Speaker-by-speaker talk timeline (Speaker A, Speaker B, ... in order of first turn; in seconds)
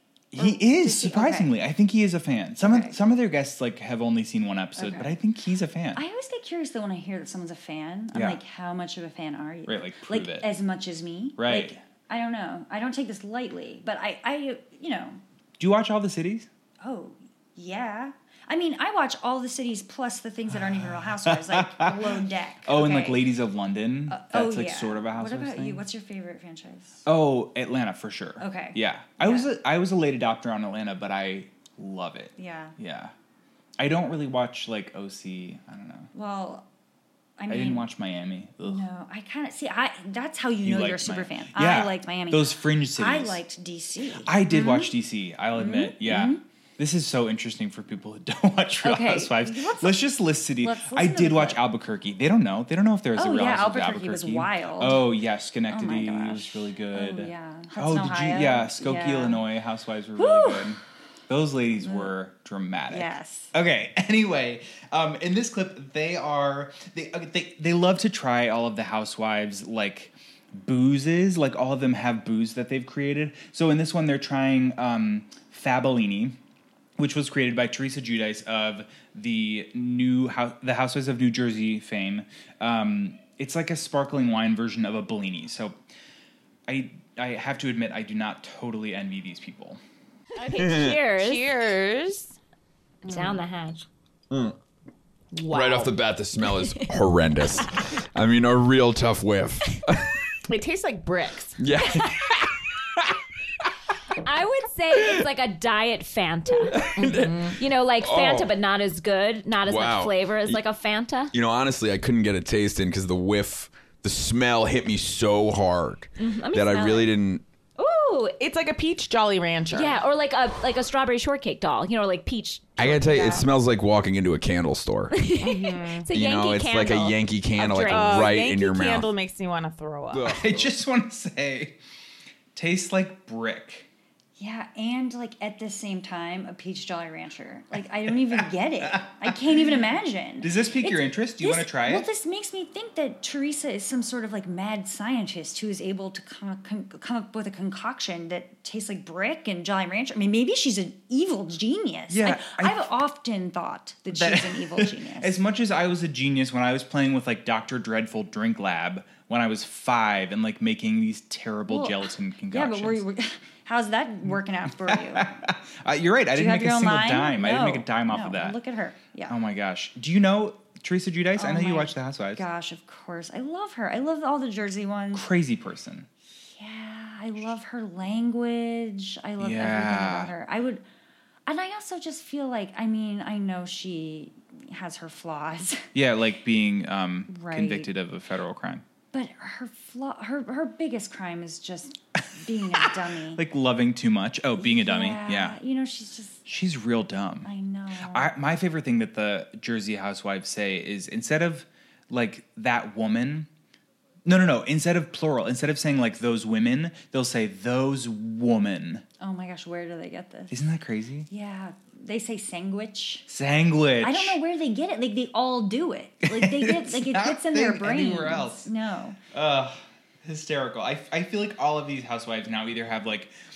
Speaker A: 0.3-6.0, 8.1-8.4, 9.7-10.5, 11.4-11.8, 15.6-16.5, 20.5-25.8, 27.0-33.1, 33.8-36.1, 37.5-38.9, 40.6-43.4, 44.2-76.3, 77.0-85.8, 86.7-89.8, 130.3-131.8, 132.5-133.9, 138.1-139.3, 140.4-142.1, 152.1-152.9, 154.1-163.0, 164.7-168.6, 169.3-172.4, 175.1-176.1, 179.4-180.3, 185.9-188.8, 192.8-195.6, 196.4-197.5, 198.1-203.5, 204.2-209.0, 210.5-211.3, 213.3-214.4, 216.3-218.7, 219.3-223.3
Speaker B: 0.3-1.5, 2.6-3.0, 4.8-5.1, 5.9-15.2, 16.8-23.3, 24.1-27.0, 28.4-29.5, 32.4-32.7, 36.1-36.6, 37.4-37.9, 38.6-44.9, 45.5-46.4, 48.8-50.1, 50.6-51.6, 53.1-55.1, 55.7-59.4, 60.2-60.8, 61.8-62.1, 62.9-63.5, 93.0-93.4, 134.4-155.4, 161.7-165.4, 166.3-169.3, 171.4-175.3, 176.4-180.8, 181.4-185.8, 187.3-187.9, 189.1-193.4, 194.6-196.4, 197.4-198.3, 209.2-210.6, 211.3-213.3, 214.0-219.2
Speaker C: 90.4-91.7, 93.1-93.8, 95.4-95.9, 100.9-102.1, 104.2-111.3, 116.2-117.1, 117.8-118.4, 119.7-123.5, 125.1-128.3
Speaker D: 90.5-91.0, 94.3-94.6, 95.5-100.2, 101.6-102.6, 106.7-108.5, 109.6-110.6, 111.3-117.4, 122.8-125.3, 126.1-129.1, 130.1-130.7
Speaker E: 91.2-91.9, 100.5-101.3, 118.4-120.1, 125.4-126.1, 127.8-130.4